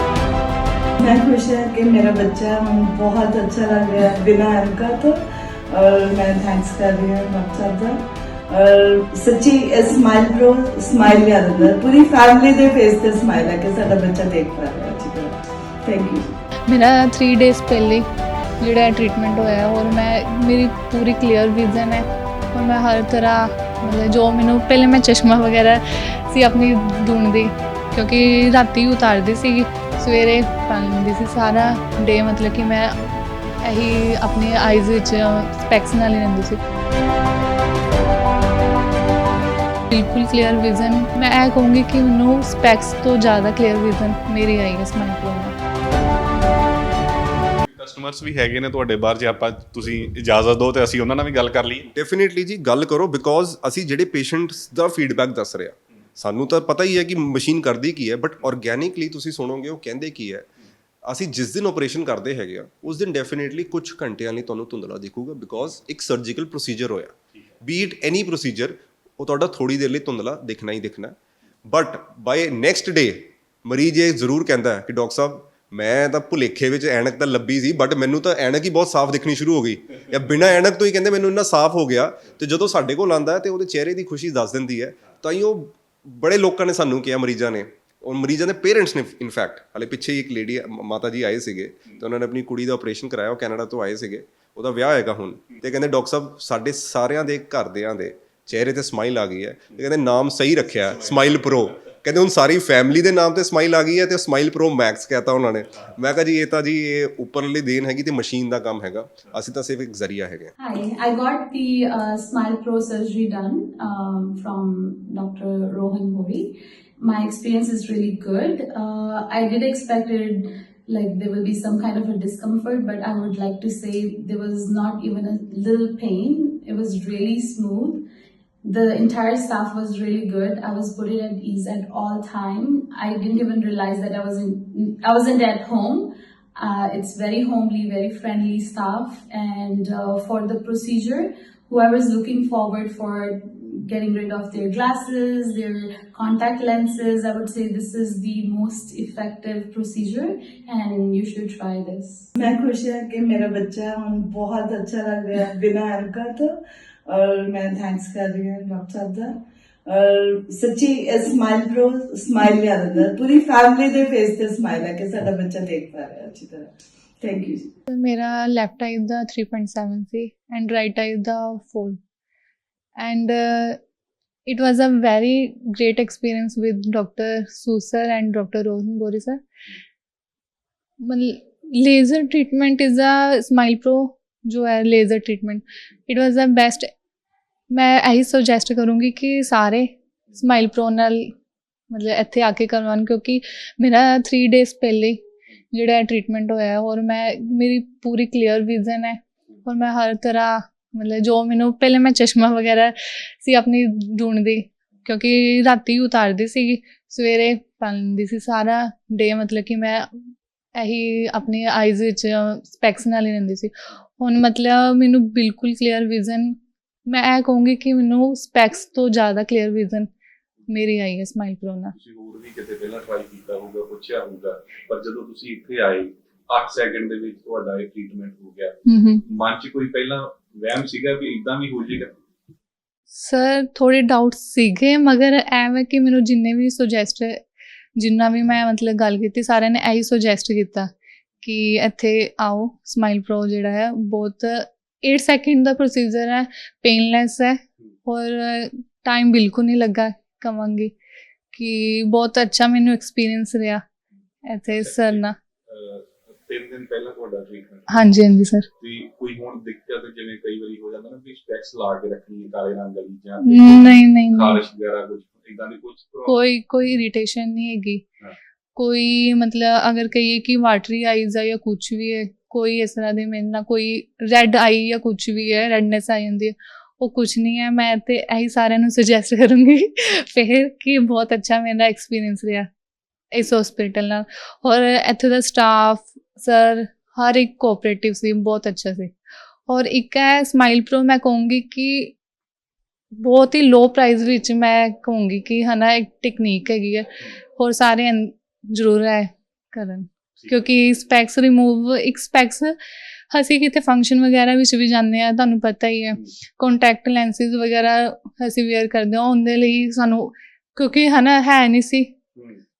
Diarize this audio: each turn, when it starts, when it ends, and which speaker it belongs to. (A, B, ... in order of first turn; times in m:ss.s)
0:01.0-0:16.4 A
0:16.7-0:18.1 B
0:18.6-0:33.0 B
0:33.6-0:36.6 B
0:39.9-0:45.5 B
0:47.6-0:51.9 C
0:51.9-1:00.5 D
1:01.1-1:11.2 D
1:11.7-1:50.5 D
1:50.6-2:08.0 E
2:08.7-2:32.3 E
2:32.4-2:47.7 A
2:47.9-2:52.0 B
2:53.0-2:53.8 B
2:54.5-2:59.4 B
3:01.0-3:06.9 B
3:07.7-3:11.3 B
3:11.9-3:15.2 B
3:15.7-3:30.1 B
3:30.8-3:40.1 B
3:40.7-3:41.9 B
3:42.0-3:52.1 C
3:48.9-3:49.2 B
3:53.1-3:57.4 B
3:58.0-4:00.9 B
4:01.4-4:10.9 B
4:11.5-4:13.8 B
4:14.5-4:15.4 B
4:14.7-4:18.1 C
4:17.9-4:18.7 B
4:18.8-4:26.4 C
4:23.4-4:24.6 B
4:26.3-4:28.0 B
4:28.8-4:42.7 B
4:43.3-4:52.2 B
4:53.2-5:02.8 B
5:03.3-5:12.1 B
5:12.4-5:12.6 C